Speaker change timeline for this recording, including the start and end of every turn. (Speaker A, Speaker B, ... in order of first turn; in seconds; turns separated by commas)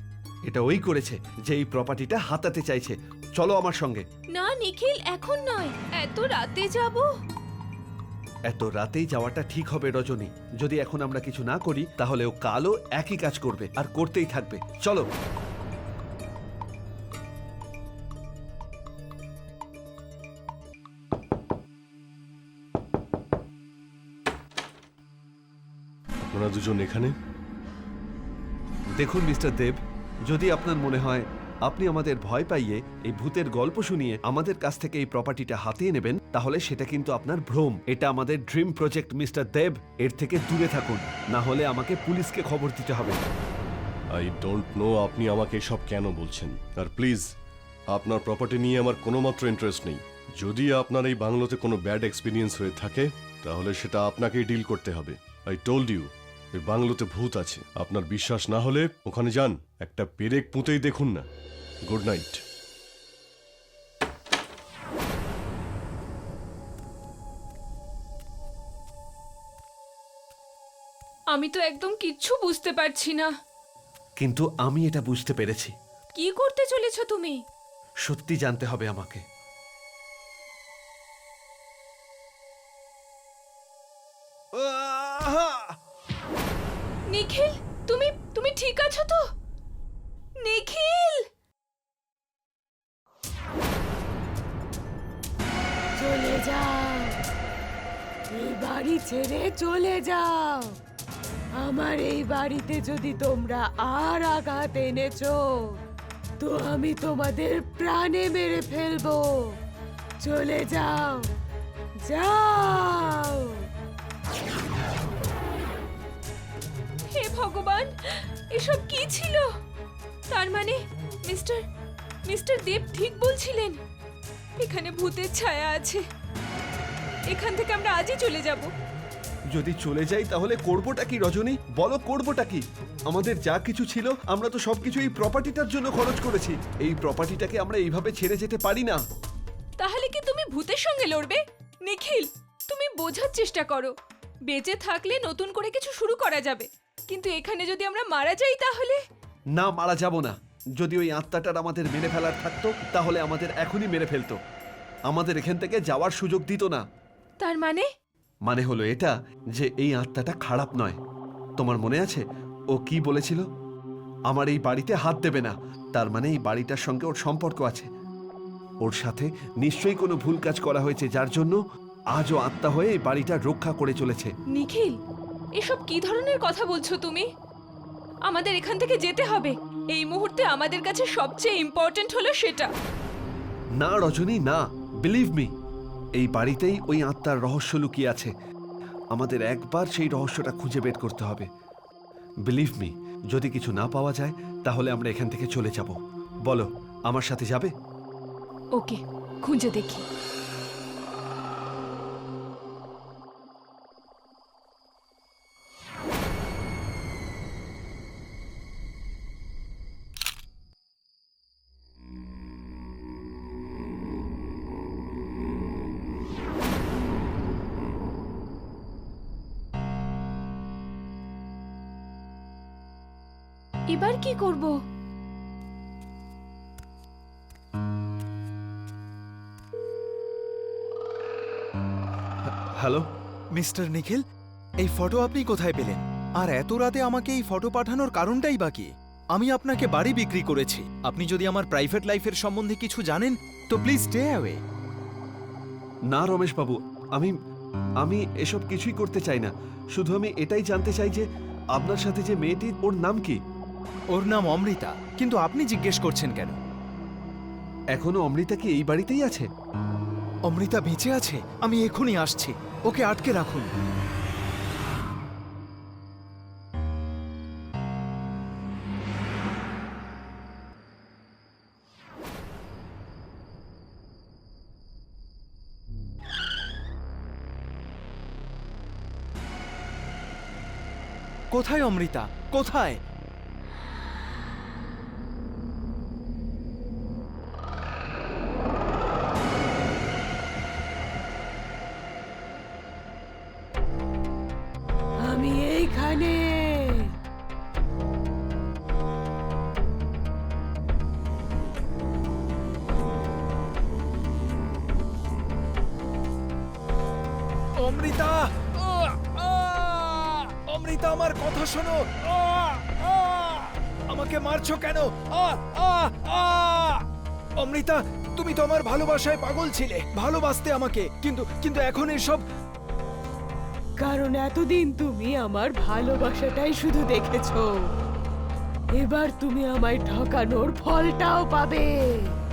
Speaker A: 0.5-4.0, Speaker B: 4.3-7.1, Speaker A: 8.5-15.1, Speaker C: 26.2-27.1, Speaker A: 28.9-43.2, Speaker C: 44.1-47.3, Speaker C: 47.9-61.2, Speaker C: 61.9-62.4, Speaker B: 71.3-73.3, Speaker A: 74.2-75.7, Speaker B: 76.2-77.4, Speaker A: 78.1-79.2, Speaker A: 84.5-85.7, Speaker B: 87.1-89.2, Speaker B: 90.4-91.2, Speaker D: 96.0-97.2, Speaker D: 98.3-100.7, Speaker D: 101.6-105.8, Speaker D: 106.4-109.4, Speaker D: 110.2-111.3, Speaker D: 112.0-113.6, Speaker B: 117.1-119.5, Speaker B: 120.3-121.6, Speaker B: 122.2-123.8, Speaker B: 124.6-126.0, Speaker B: 127.3-128.7, Speaker A: 129.5-139.0, Speaker B: 139.8-143.9, Speaker B: 144.5-149.0, Speaker A: 149.6-154.4, Speaker A: 155.1-156.8, Speaker B: 157.4-157.9, Speaker A: 158.4-161.0, Speaker A: 161.6-163.4, Speaker A: 164.3-167.9, Speaker A: 168.8-171.6, Speaker A: 172.1-174.3, Speaker B: 174.5-175.0, Speaker B: 175.6-177.3, Speaker B: 178.3-182.7, Speaker A: 183.8-185.5, Speaker A: 186.2-188.3, Speaker A: 189.1-191.5, Speaker A: 192.5-197.7, Speaker B: 198.8-200.0, Speaker B: 223.9-224.8, Speaker A: 232.7-233.1, Speaker E: 233.5-234.2, Speaker E: 234.8-244.6, Speaker A: 246.1-247.3, Speaker A: 248.0-253.4, Speaker E: 254.1-256.6, Speaker A: 257.9-259.5, Speaker E: 260.5-263.7, Speaker E: 281.5-283.0, Speaker D: 295.2-297.1, Speaker E: 307.8-317.0, Speaker E: 317.6-322.4, Speaker D: 324.0-327.7, Speaker D: 328.9-332.3